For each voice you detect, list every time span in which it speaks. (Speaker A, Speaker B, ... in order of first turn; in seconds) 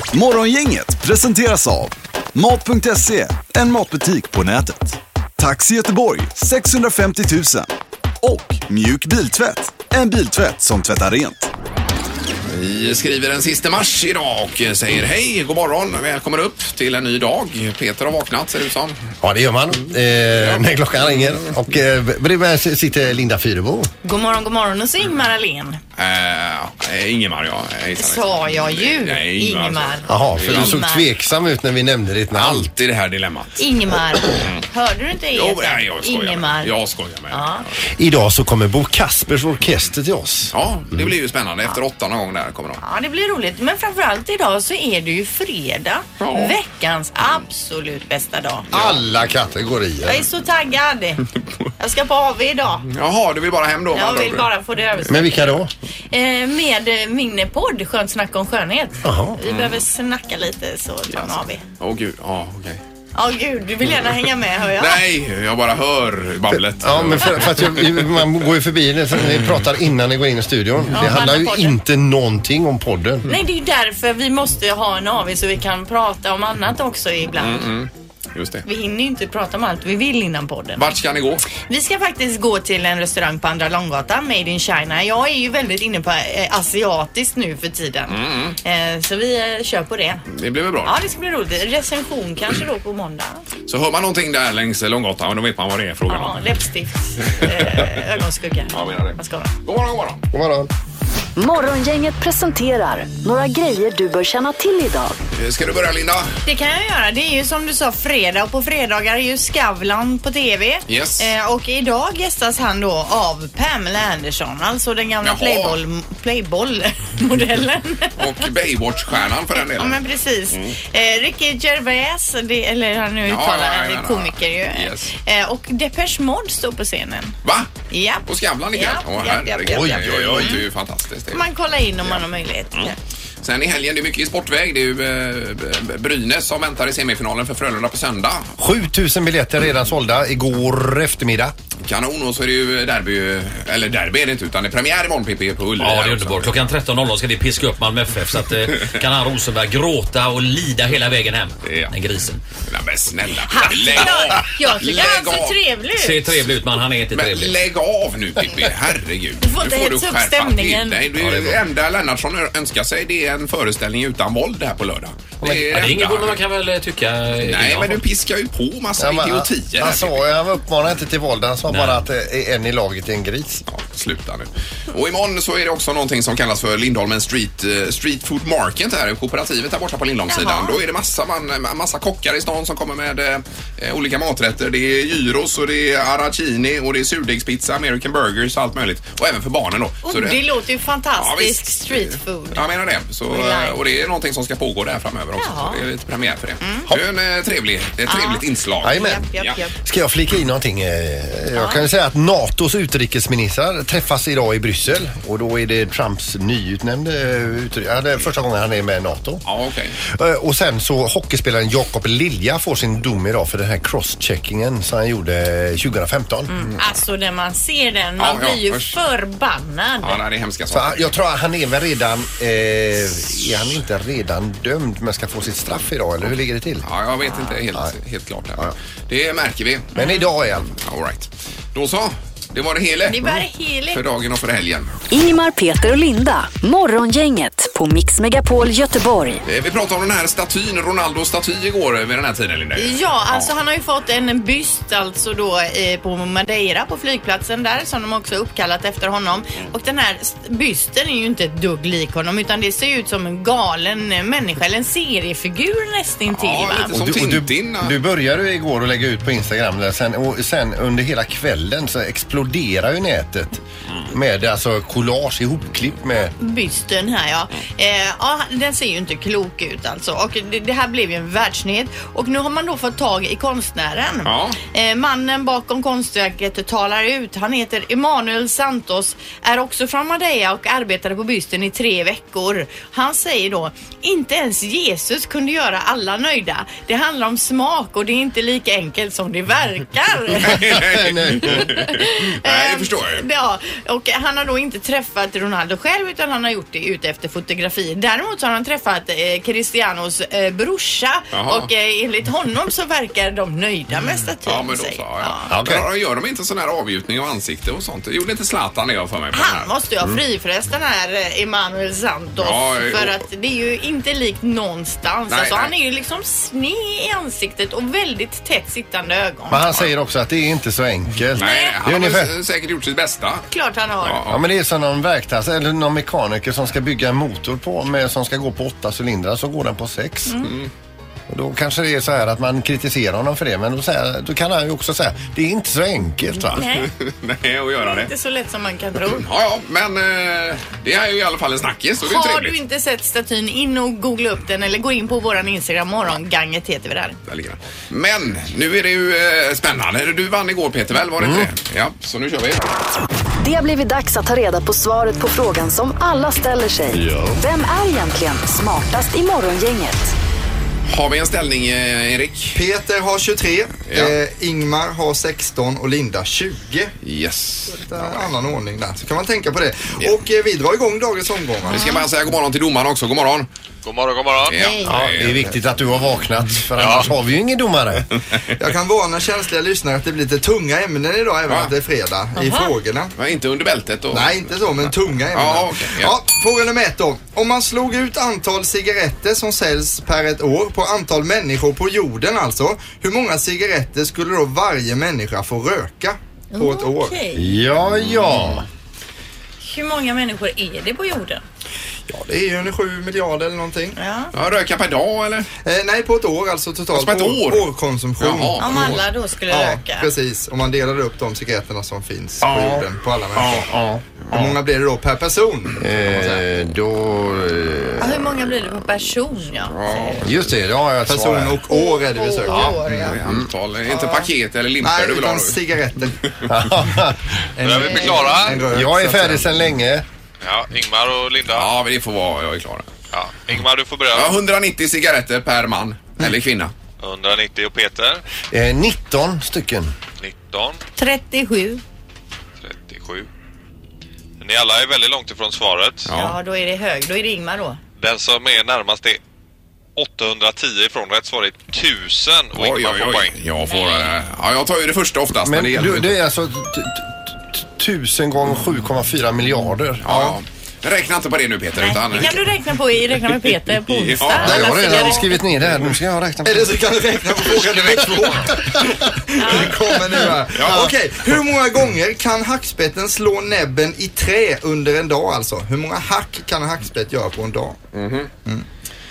Speaker A: 0.1-7.7, 8.2-11.5
Speaker B: 12.5-19.0, 25.9-30.8, 32.3-33.7, 34.2-34.6, 35.3-37.8, 40.5-42.8, 46.2-46.6, 52.9-54.5, 59.4-59.8, 61.1-62.8, 64.8-68.3, 77.4-78.7, 80.8-81.5, 88.1-88.6, 90.3-90.9, 93.7-96.4, 97.4-97.9, 98.7-100.2, 105.3-106.3, 110.9-111.3, 115.2-115.8, 118.2-120.7, 123.2-125.1, 127.4-127.7, 128.2-131.4, 132.7-138.5, 141.8-146.5, 151.6-151.9, 152.7-155.6, 157.1-166.4, 167.4-170.2, 173.7-190.4, 191.2-199.6, 209.4-210.0, 218.2-219.0, 220.0-221.1, 226.8-229.9, 230.7-234.9, 239.4-243.5, 256.3-257.9, 274.2-274.6, 290.4-293.2, 301.3-301.7, 304.4-309.7, 312.4-313.1, 315.3-315.7, 321.3-323.4, 324.0-324.4, 330.4-330.7, 336.6-338.1, 339.1-342.6, 347.3-352.6, 360.9-362.6, 363.9-364.1, 367.0-368.3, 371.7-373.5, 374.5-375.6, 383.2-386.1, 404.3-405.5, 406.9-407.7, 408.2-409.1, 419.7-420.5, 423.1-425.6, 426.3-426.6, 431.5-432.9, 434.1-436.7, 446.1-446.3, 452.5-456.1, 460.0-462.4, 464.0-465.0, 470.6-470.8, 477.9-478.3
Speaker C: 19.2-23.9, 30.1-32.7, 38.0-40.5, 48.7-50.3, 55.1-55.7, 59.0-59.4, 66.5-73.3, 100.3-100.7, 129.7-130.6, 138.6-141.5, 161.2-161.6, 169.0-173.6, 198.8-199.3, 199.8-209.4, 210.0-216.5, 220.7-226.8, 229.9-230.7, 256.9-266.3, 290.4-291.8, 305.5-305.8, 319.5-322.3, 324.3-330.4, 331.3-336.6, 351.2-351.5, 374.9-378.1, 397.3-398.7, 412.4-412.8, 413.4-414.0, 415.8-418.2, 420.2-421.6, 422.5-423.4, 426.4-427.2, 428.5-430.0, 438.5-439.9, 455.4-460.2, 464.2-466.8, 467.5-468.9, 469.8-470.9
Speaker D: 24.0-25.8, 28.0-31.1, 33.6-36.7, 37.3-37.6, 42.8-48.7, 50.0-51.2, 51.8-52.9, 53.9-55.5, 56.1-61.6, 63.1-65.0, 70.9-71.8, 73.3-77.7, 78.7-80.8, 81.6-90.2, 90.8-93.4, 96.1-99.5, 106.4-118.2, 119.5-127.3, 127.9-130.6, 131.3-133.0, 153.5-156.3, 159.4-161.0, 180.3-180.8, 190.0-192.6, 193.3-193.8, 195.4-195.8, 196.6-196.9, 198.1-199.7, 201.5-201.8, 216.5-220.2, 233.1-234.0, 242.8-256.9, 266.4-290.6, 291.7-305.5, 309.3-319.6, 321.4-321.8, 323.5-324.2, 330.3-330.5, 336.5-336.9, 337.8-339.2, 342.0-347.2, 371.7-372.0, 374.6-375.1, 382.3-382.7, 396.5-397.5, 399.6-401.4, 403.9-404.3, 408.6-410.1, 418.0-420.2, 421.7-423.2, 423.9-424.3, 427.8-428.1, 441.0-441.8, 446.1-447.8, 461.8-465.4, 469.4-469.7
Speaker E: 101.3-105.2, 235.1-239.4, 353.4-360.1
Speaker F: 145.8-152.4, 155.9-157.6, 165.4-168.0, 171.7-172.0
Speaker G: 362.5-366.9, 367.7-371.9, 378.6-383.1, 384.1-397.2, 402.1-403.9, 405.6-413.7, 414.3-415.9, 421.1-423.1, 424.8-426.2, 427.6-429.5, 460.1-460.3, 466.4-477.8
Speaker H: 373.8-374.6, 376.8-377.1, 427.6-428.7, 430.4-431.7, 433.1-434.4, 437.0-438.2, 440.2-440.8, 442.6-443.3, 444.4-446.1, 448.0-449.2, 449.9-453.4